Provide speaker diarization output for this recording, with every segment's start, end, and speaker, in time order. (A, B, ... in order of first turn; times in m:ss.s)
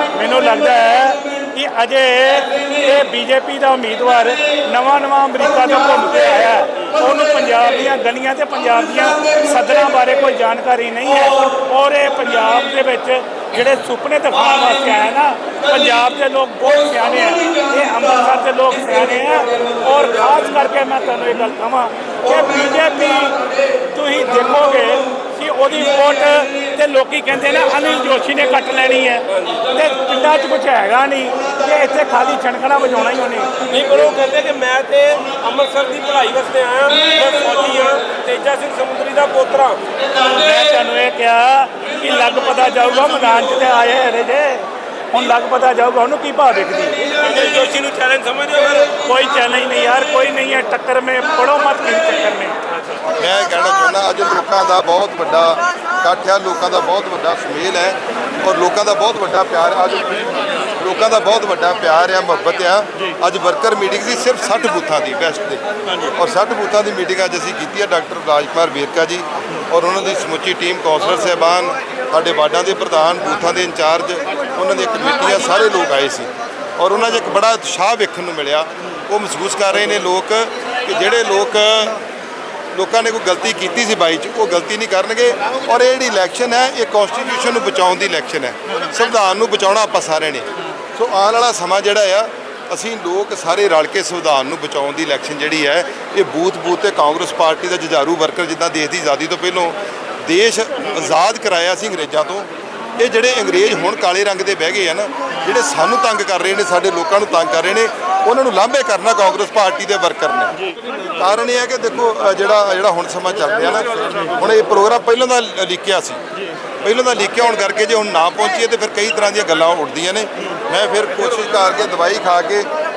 0:00.1-0:33.5 A
0:29.3-0:29.6 B
0:33.6-0:39.8 B
0:40.2-0:47.0 A
0:47.0-0:49.0 B
0:49.0-0:52.6 A
0:53.1-1:22.0 C
1:22.7-1:50.6 C
1:51.1-1:56.2 C
1:56.8-2:02.7 C